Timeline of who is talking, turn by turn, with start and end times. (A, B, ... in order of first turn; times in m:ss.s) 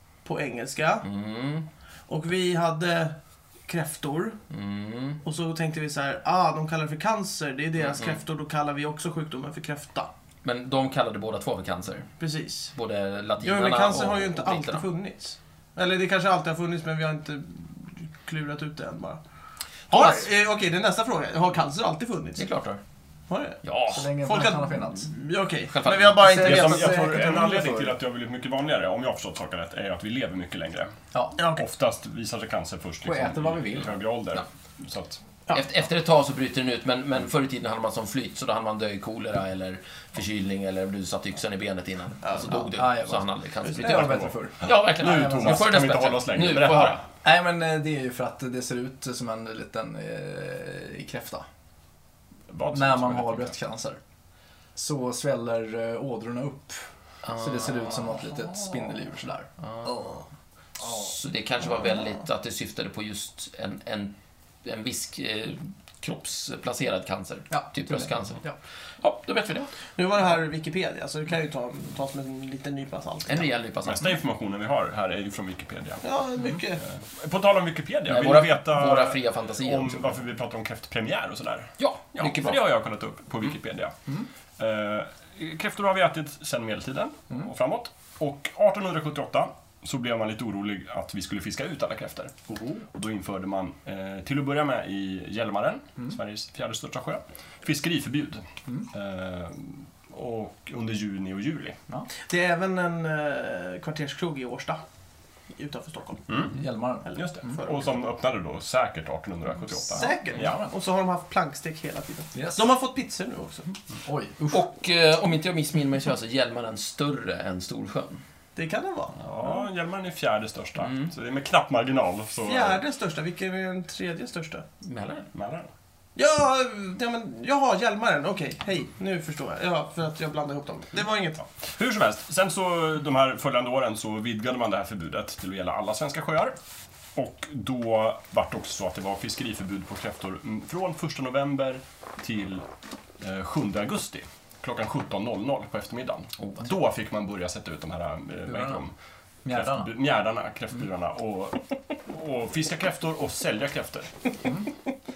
0:00.2-0:01.1 A
0:01.0-0:01.6 B
0:02.1-0:03.2 A
0:03.7-0:04.4 A
0:04.5-0:05.2 B
0:05.2-0:10.1 A
0:07.9-0:08.2 B
0:10.4-0:12.1 B
0:12.2-0:12.7 A
0:12.7-0:14.8 B
0:13.4-0:19.2 A
0:19.9-0:20.2 B
0:19.9-0:22.4 A
0:22.4-0:22.8 B
0:23.3-0:23.6 A
0:23.6-0:24.1 B
0:23.9-0:25.1 C
0:24.2-0:27.3 A
0:25.7-0:26.4 B
0:26.1-0:28.0 C
0:26.3-0:35.2 D
0:31.4-0:31.6 A
0:33.0-0:34.0 C
0:35.5-0:47.0 B
0:42.2-0:42.7 A
0:42.7-0:45.6 C
0:43.6-0:44.1 A
0:43.9-0:47.0 D
0:47.2-0:51.4 C
0:52.5-0:53.5 D
0:52.7-0:54.0 C
0:54.7-1:00.2 C
0:57.2-0:58.1 B
0:59.6-0:59.9 B
1:00.8-1:08.4 B
1:00.8-1:01.1 C
1:07.5-1:08.6 C
1:09.0-1:09.7 B
1:10.0-1:13.5 A
1:13.3-1:14.2 B
1:13.8-1:16.0 D
1:16.0-1:16.8 A
1:17.2-1:23.9 D
1:18.1-1:20.2 B
1:21.8-1:22.7 B
1:24.6-1:32.3 D
1:32.5-1:32.8 C
1:32.9-1:41.8 D
1:42.3-1:44.8 A
1:45.5-1:46.2 A
1:46.3-1:46.6 D
1:46.5-1:47.6 C
1:47.0-1:47.9 A
1:47.1-1:50.6 D
1:49.9-1:53.7 A
1:50.1-1:50.7 C
1:52.3-1:52.6 C
1:54.0-1:54.6 C
1:54.5-1:58.2 B
1:58.6-1:59.2 A
1:59.2-2:02.8 D
2:00.8-2:01.1 B
2:02.4-2:04.6 A
2:04.8-2:05.3 B
2:05.3-2:05.7 D
2:06.2-2:11.4 A
2:11.6-2:16.6 D
2:17.2-2:22.6 D
2:23.2-2:28.9 D
2:28.5-2:28.8 C
2:29.4-2:29.9 C
2:29.5-2:34.1 D